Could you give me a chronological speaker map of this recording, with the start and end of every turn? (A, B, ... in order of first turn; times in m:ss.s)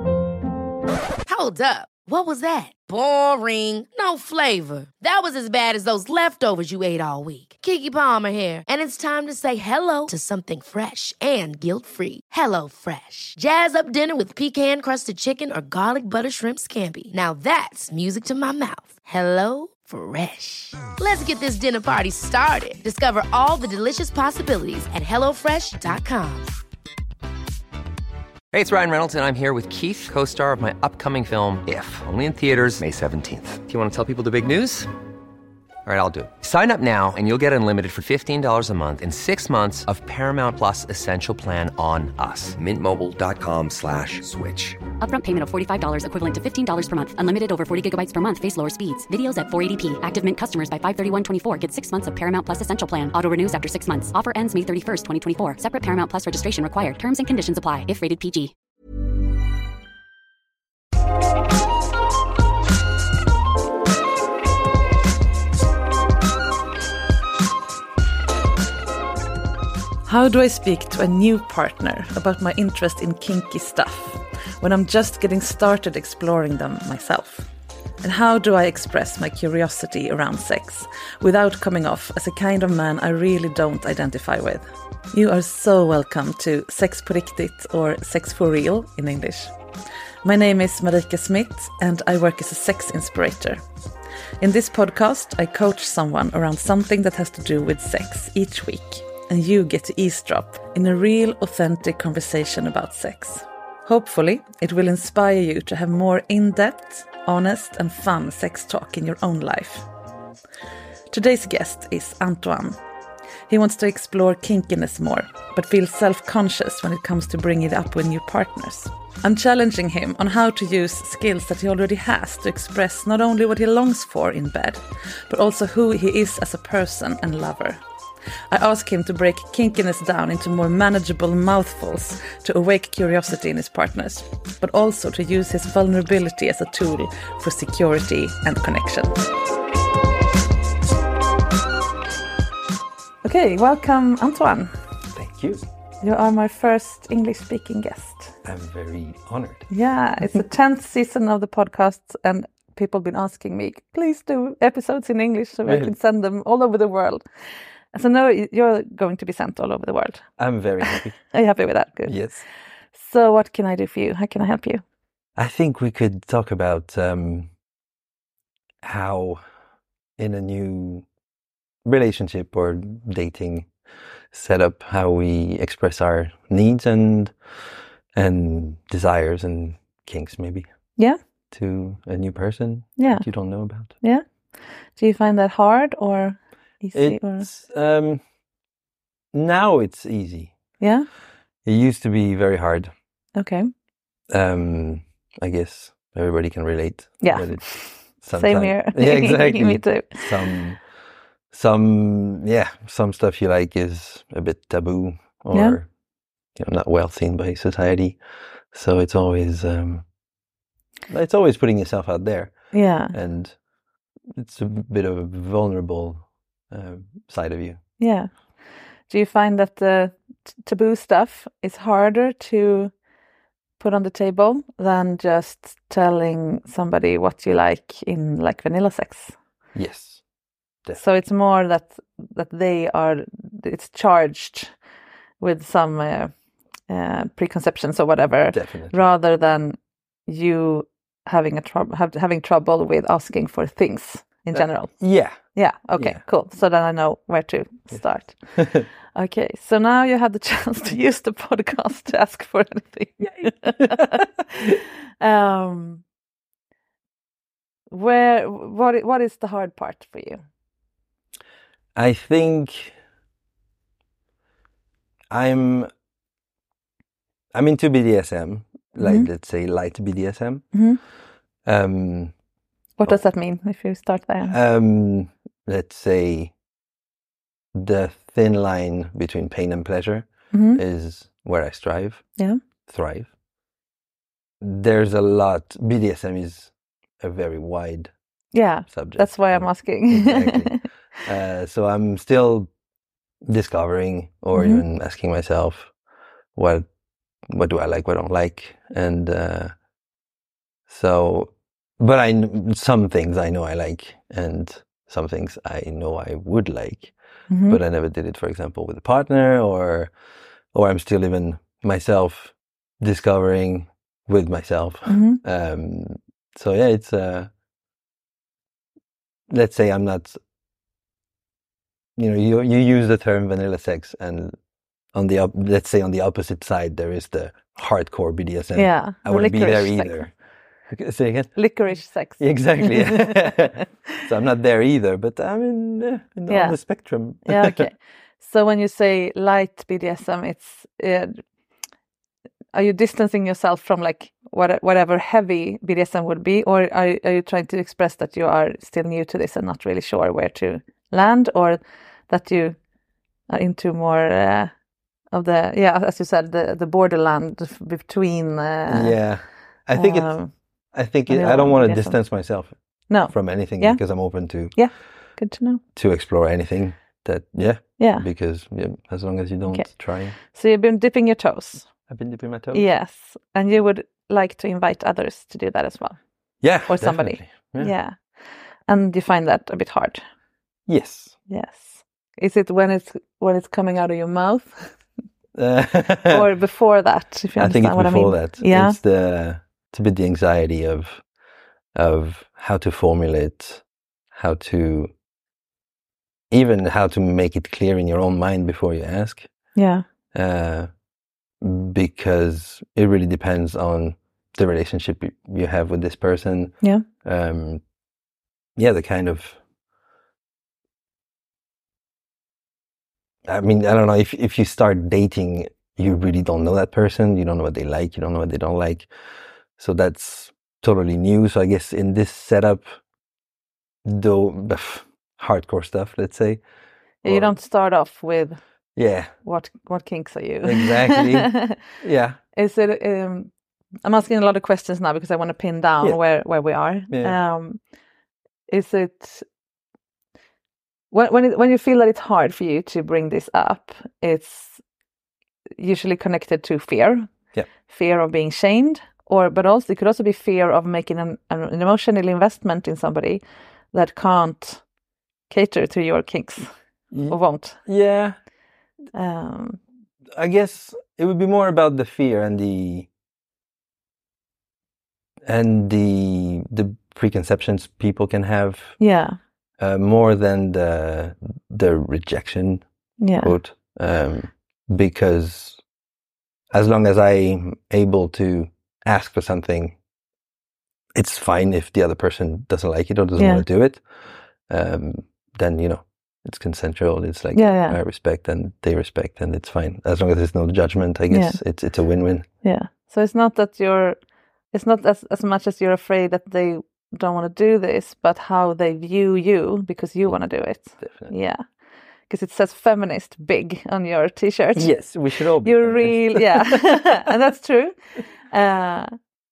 0:01.3-0:26.5 A
0:28.5-0:34.9 B
0:35.8-0:44.8 B
0:45.0-0:58.5 C
1:10.0-1:17.5 D
1:18.0-1:29.5 D
1:30.2-1:33.6 D
1:34.4-1:49.8 D
1:51.1-1:52.8 D
1:53.5-2:07.8 D
2:08.5-2:19.2 D
2:23.2-2:24.7 D
2:25.1-2:25.6 E
2:26.0-2:28.4 D
2:28.4-2:29.7 E
2:29.7-2:37.2 D
2:35.6-2:35.9 E
2:37.9-2:40.3 D
2:40.4-2:41.2 E
2:40.8-2:42.2 D
2:42.1-2:42.4 E
2:42.9-2:44.8 D
2:45.4-2:47.5 E
2:48.8-2:49.4 E
2:50.2-2:51.0 E
2:51.8-2:53.7 E
2:54.3-2:57.3 E
2:58.1-3:00.7 E
3:01.5-3:03.9 E
3:03.0-3:03.3 D
3:05.0-3:07.5 D
3:06.9-3:08.2 E
3:09.3-3:10.5 E
3:10.8-3:11.1 D
3:11.6-3:12.9 E
3:13.4-3:13.7 D
3:14.3-3:20.8 E
3:17.2-3:20.3 D
3:21.5-3:25.9 E
3:25.5-3:25.8 D
3:26.6-3:28.2 E
3:28.7-3:30.0 E
3:31.1-3:33.6 E
3:32.7-3:33.2 D
3:34.3-3:37.8 E
3:38.0-3:38.3 D
3:39.1-3:42.9 D
3:43.8-3:49.3 D
3:49.7-3:50.2 E
3:51.0-3:54.8 D
3:55.4-3:56.3 D
3:56.9-4:16.0 D
3:58.5-3:59.0 E
4:04.5-4:05.4 E
4:08.6-4:08.8 E
4:17.9-4:20.4 D
4:21.9-4:23.0 E
4:25.3-4:25.9 E
4:27.5-4:30.7 E
4:29.0-4:29.3 D
4:30.7-4:31.0 D
4:31.6-4:32.3 E
4:33.0-4:34.5 D
4:34.5-4:36.5 E
4:37.7-4:42.3 E
4:40.5-4:40.8 D
4:42.9-4:43.3 E
4:44.6-4:48.1 E
4:48.5-4:50.8 D
4:48.8-4:52.7 E
4:53.4-4:55.9 E
4:54.5-4:54.8 D
4:56.5-4:56.8 E
4:57.5-4:59.7 E
5:00.9-5:07.1 E
5:07.5-5:07.8 D
5:07.6-5:10.1 E
5:10.7-5:17.5 E
5:15.1-5:15.4 D
5:19.5-5:20.4 E
5:22.2-5:24.6 E
5:25.1-5:30.3 E
5:28.7-5:30.2 D
5:30.9-5:31.6 E
5:31.5-5:33.5 D
5:32.4-5:37.9 E
5:36.5-5:36.8 D
5:37.4-5:41.4 D
5:42.7-5:52.8 D
5:53.5-5:54.7 D
5:55.3-5:59.4 D
5:58.9-6:00.4 E
5:59.9-6:00.5 D
6:00.9-6:04.8 E
6:01.3-6:02.4 D
6:03.1-6:05.8 D
6:05.9-6:10.4 E
6:08.0-6:08.2 D
6:10.4-6:11.9 D
6:12.1-6:12.8 E
6:12.7-6:16.2 D
6:16.6-6:17.9 E
6:16.8-6:20.2 D
6:20.9-6:21.4 E
6:21.5-6:25.0 D
6:25.5-6:26.5 E
6:26.3-6:29.0 D
6:27.6-6:31.2 E
6:31.9-6:35.1 E
6:36.5-6:39.5 E
6:39.7-6:40.0 D
6:40.3-6:40.9 E
6:41.6-6:47.8 E
6:48.8-6:49.6 E
6:53.4-6:59.1 E
6:59.8-7:03.0 E
7:04.0-7:06.6 E
7:07.2-7:08.6 D
7:07.2-7:07.5 E
7:08.9-7:09.3 E
7:09.4-7:11.8 D
7:10.6-7:12.4 E
7:12.5-7:13.5 D
7:14.0-7:17.8 D
7:17.1-7:17.4 E
7:18.7-7:19.4 D
7:21.1-7:24.8 D
7:25.8-7:27.3 D
7:27.9-7:33.4 D
7:33.9-7:34.8 D
7:35.5-7:36.7 D
7:37.1-7:38.4 E
7:37.3-7:37.8 D
7:39.1-7:39.8 D
7:40.3-7:43.1 E
7:45.4-7:49.0 E
7:49.0-7:49.4 D
7:49.8-7:55.8 E
7:53.2-7:53.5 D
7:56.7-8:00.0 E
8:01.1-8:04.0 E
8:03.4-8:03.6 D
8:04.7-8:12.4 E
8:07.5-8:08.0 D
8:11.3-8:11.6 D
8:12.6-8:14.2 D
8:14.7-8:21.6 D
8:20.2-8:21.3 E
8:22.3-8:25.0 D
8:24.8-8:27.0 E
8:25.6-8:29.1 D